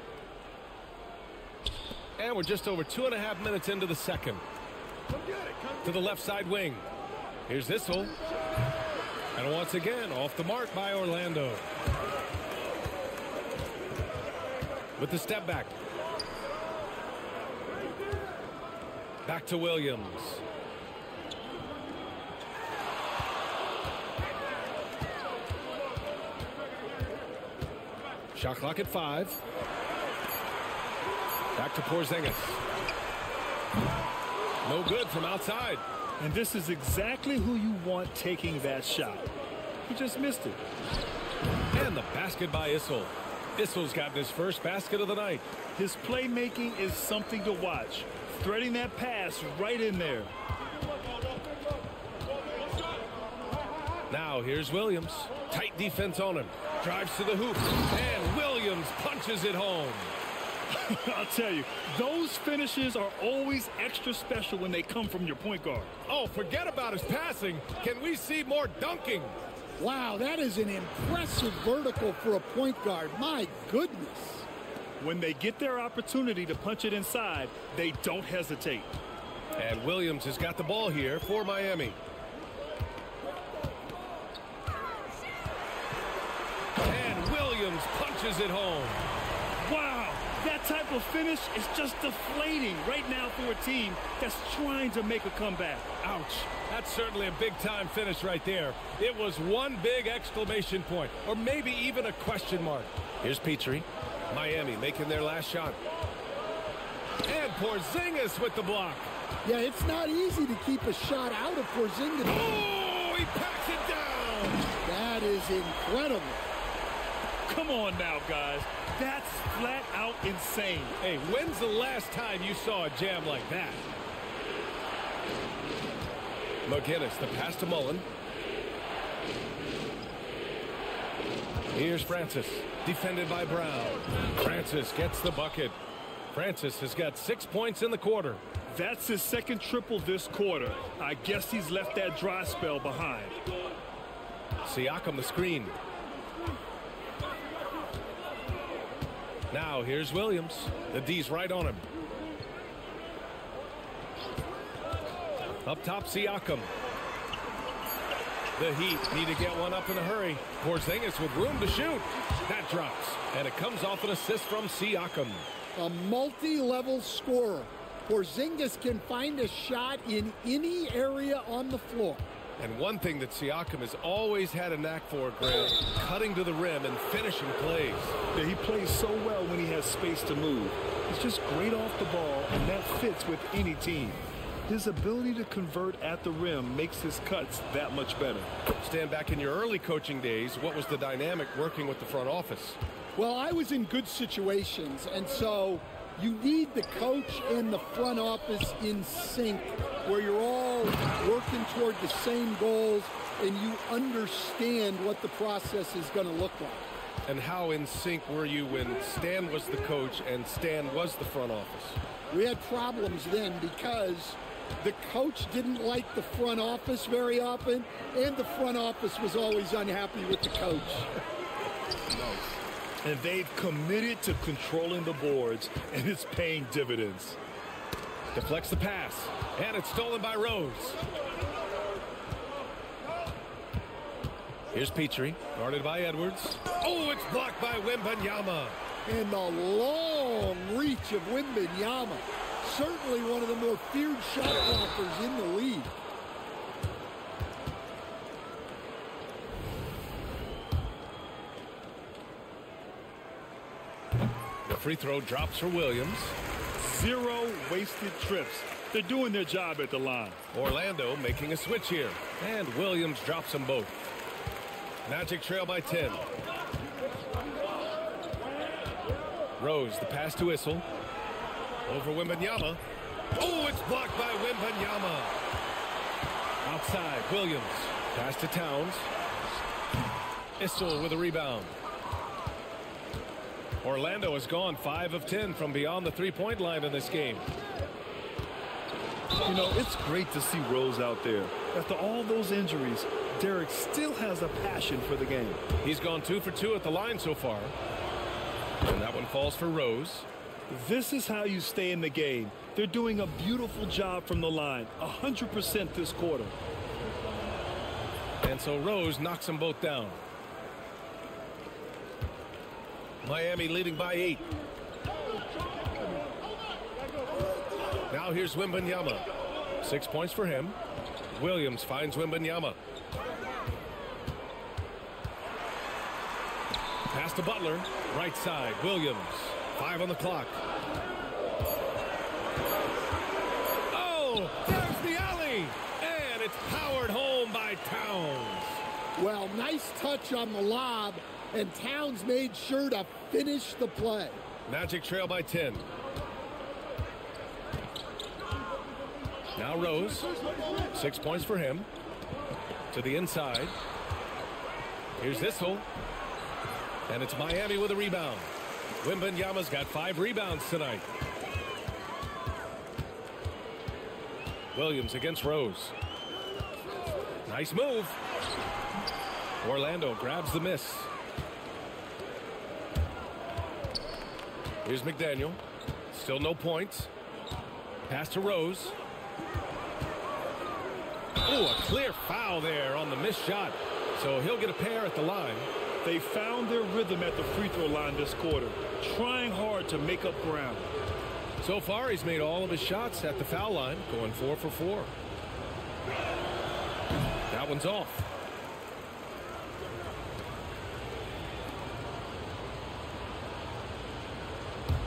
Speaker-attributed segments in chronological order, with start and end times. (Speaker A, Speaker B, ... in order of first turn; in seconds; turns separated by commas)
Speaker A: 2.2-4.4, Speaker A: 5.8-6.8, Speaker A: 7.5-8.2, Speaker A: 9.3-11.6, Speaker A: 15.0-15.7, Speaker A: 19.2-20.4, Speaker A: 28.3-29.4, Speaker A: 31.6-32.6, Speaker A: 34.6-35.8, Speaker B: 36.2-39.3, Speaker B: 39.9-40.6, Speaker A: 41.7-45.5, Speaker B: 45.8-50.3, Speaker A: 54.1-60.1, Speaker B: 60.7-65.9, Speaker A: 66.1-69.4, Speaker C: 69.8-74.5, Speaker B: 75.0-78.9, Speaker A: 79.6-82.0, Speaker A: 86.8-89.0, Speaker B: 89.7-95.9, Speaker A: 96.0-105.8, Speaker A: 107.2-109.1, Speaker C: 109.4-112.5, Speaker A: 112.3-114.7, Speaker C: 114.8-116.5, Speaker B: 117.5-121.0, Speaker A: 121.0-123.9, Speaker A: 126.7-128.1, Speaker A: 131.7-135.8, Speaker A: 136.3-138.4, Speaker B: 138.7-143.4, Speaker A: 144.7-145.8, Speaker A: 149.5-151.9, Speaker A: 155.6-156.7, Speaker A: 158.6-165.4, Speaker C: 165.8-172.2, Speaker A: 172.6-178.2, Speaker B: 178.3-188.5, Speaker A: 188.8-192.8, Speaker C: 193.2-206.9, Speaker A: 207.3-212.0, Speaker C: 212.3-221.1, Speaker B: 223.0-227.4, Speaker A: 228.3-231.0, Speaker A: 234.7-238.8, Speaker C: 239.1-245.9, Speaker A: 254.7-256.4, Speaker B: 256.8-260.4, Speaker A: 260.5-264.0, Speaker A: 265.1-266.2, Speaker A: 269.6-270.9, Speaker A: 271.9-272.8, Speaker A: 273.4-275.4, Speaker A: 276.6-279.1, Speaker A: 280.6-281.7, Speaker A: 283.8-287.5, Speaker B: 289.4-295.6, Speaker A: 295.8-297.8, Speaker A: 298.8-300.3, Speaker B: 300.7-306.6, Speaker A: 308.4-310.2, Speaker A: 313.2-314.4, Speaker A: 318.1-319.2, Speaker A: 319.8-320.8, Speaker A: 321.3-322.8, Speaker A: 327.1-330.6, Speaker A: 333.9-338.8, Speaker C: 339.2-344.4, Speaker A: 344.7-345.9, Speaker A: 349.6-350.3, Speaker A: 350.9-351.9, Speaker A: 352.9-353.8, Speaker A: 355.2-355.9, Speaker A: 357.1-361.1, Speaker A: 364.7-365.9, Speaker A: 367.4-368.2, Speaker A: 369.6-371.1, Speaker A: 374.9-375.6, Speaker A: 376.1-377.1, Speaker A: 378.1-379.0, Speaker A: 381.4-385.7, Speaker B: 386.0-390.9, Speaker A: 391.6-395.1, Speaker A: 397.5-398.3